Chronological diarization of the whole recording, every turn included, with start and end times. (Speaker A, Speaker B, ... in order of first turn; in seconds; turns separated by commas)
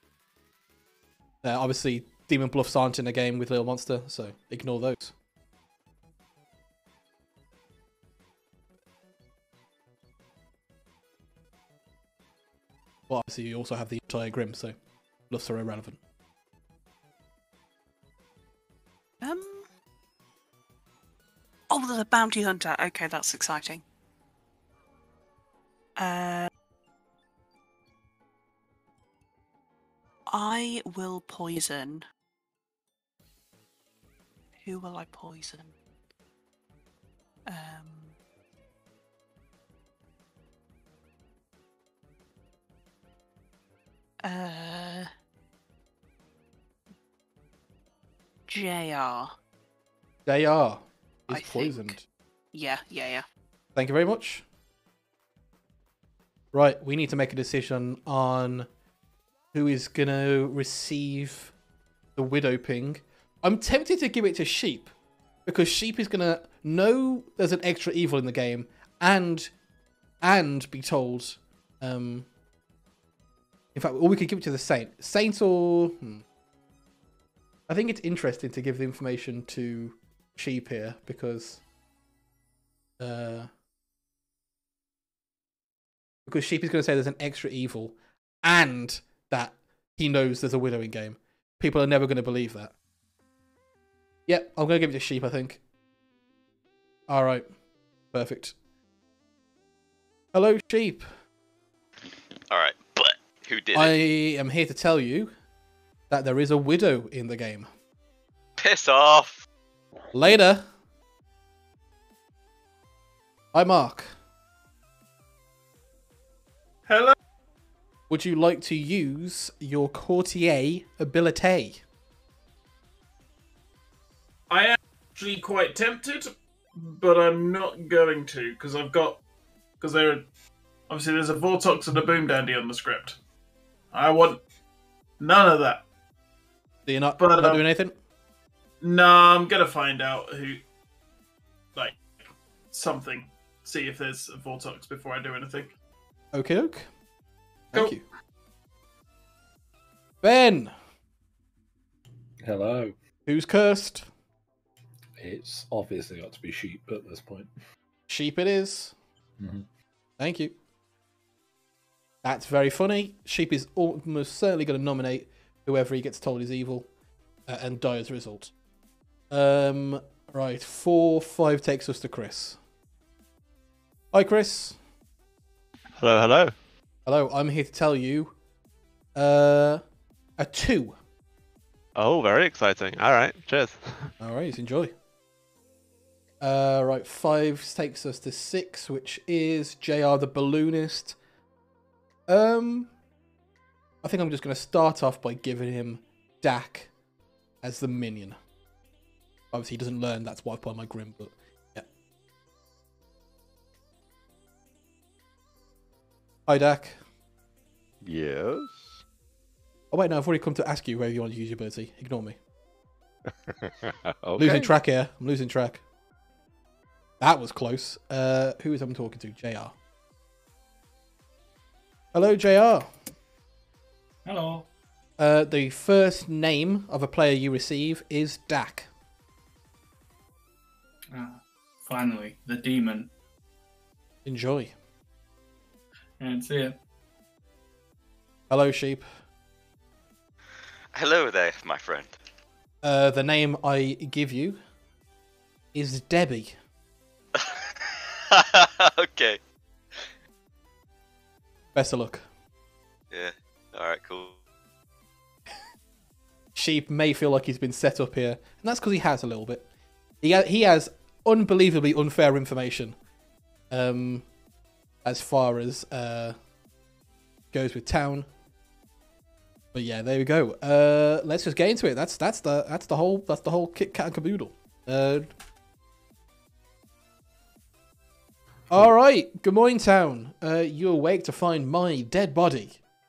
Speaker A: 1.4-5.1, Speaker A: 13.1-14.7, Speaker A: 15.3-16.0, Speaker B: 19.2-19.6, Speaker B: 21.7-23.8, Speaker B: 26.0-26.5, Speaker B: 30.3-32.0, Speaker B: 34.6-35.7, Speaker B: 37.5-38.1, Speaker B: 44.2-45.1, Speaker B: 48.5-49.3, Speaker A: 50.2-52.0, Speaker B: 51.3-52.0, Speaker B: 52.5-53.2, Speaker A: 53.7-54.4, Speaker A: 56.5-58.7, Speaker A: 59.5-61.5, Speaker A: 62.1-64.9, Speaker A: 65.5-69.5, Speaker A: 70.2-72.3, Speaker A: 73.7-76.2, Speaker A: 77.7-81.6, Speaker A: 83.0-83.5, Speaker A: 86.2-92.7, Speaker A: 94.3-95.6, Speaker A: 97.1-97.5, Speaker A: 98.1-98.5, Speaker A: 100.3-101.1, Speaker C: 102.5-104.0, Speaker A: 103.7-105.3, Speaker A: 106.1-107.7, Speaker C: 108.6-109.5, Speaker A: 110.1-110.7, Speaker A: 113.5-114.1, Speaker D: 116.9-117.1, Speaker A: 118.1-121.8, Speaker D: 124.5-129.2, Speaker D: 129.8-130.2, Speaker D: 130.9-133.2, Speaker D: 133.9-134.4, Speaker D: 135.2-135.8, Speaker A: 136.8-137.9, Speaker D: 137.2-137.6, Speaker D: 138.8-140.6, Speaker D: 141.7-142.0, Speaker D: 142.7-145.7, Speaker A: 146.3-146.9, Speaker A: 147.7-148.0, Speaker A: 150.2-150.7, Speaker E: 152.4-152.9, Speaker A: 153.2-154.1, Speaker E: 155.2-157.5, Speaker A: 158.1-158.9, Speaker E: 159.4-159.6, Speaker A: 160.2-160.5, Speaker A: 162.2-166.9, Speaker A: 167.5-168.5, Speaker A: 169.3-172.6, Speaker A: 174.1-174.8, Speaker F: 176.0-176.5, Speaker A: 177.1-178.3, Speaker A: 179.1-179.8, Speaker A: 180.4-180.9, Speaker F: 181.9-184.1, Speaker A: 184.2-184.9, Speaker A: 186.4-191.2, Speaker A: 192.3-192.9, Speaker A: 194.0-196.9, Speaker A: 197.6-198.4, Speaker A: 199.5-201.8, Speaker A: 206.5-207.0, Speaker G: 208.0-209.0, Speaker A: 209.9-212.4, Speaker G: 213.3-214.7, Speaker A: 214.4-215.8, Speaker A: 217.2-219.7, Speaker A: 222.1-222.9, Speaker H: 224.2-224.7, Speaker A: 225.2-228.9, Speaker H: 231.1-233.1, Speaker A: 234.2-234.7, Speaker H: 236.2-236.8, Speaker A: 238.5-239.1, Speaker C: 240.9-242.1, Speaker A: 242.8-244.6, Speaker A: 245.7-246.5, Speaker C: 247.3-249.4, Speaker A: 251.7-252.2, Speaker C: 253.1-254.4, Speaker A: 256.5-259.7, Speaker A: 260.2-262.9, Speaker A: 263.7-264.3, Speaker A: 265.0-266.4, Speaker A: 267.5-268.3, Speaker A: 269.7-275.3, Speaker A: 278.7-282.8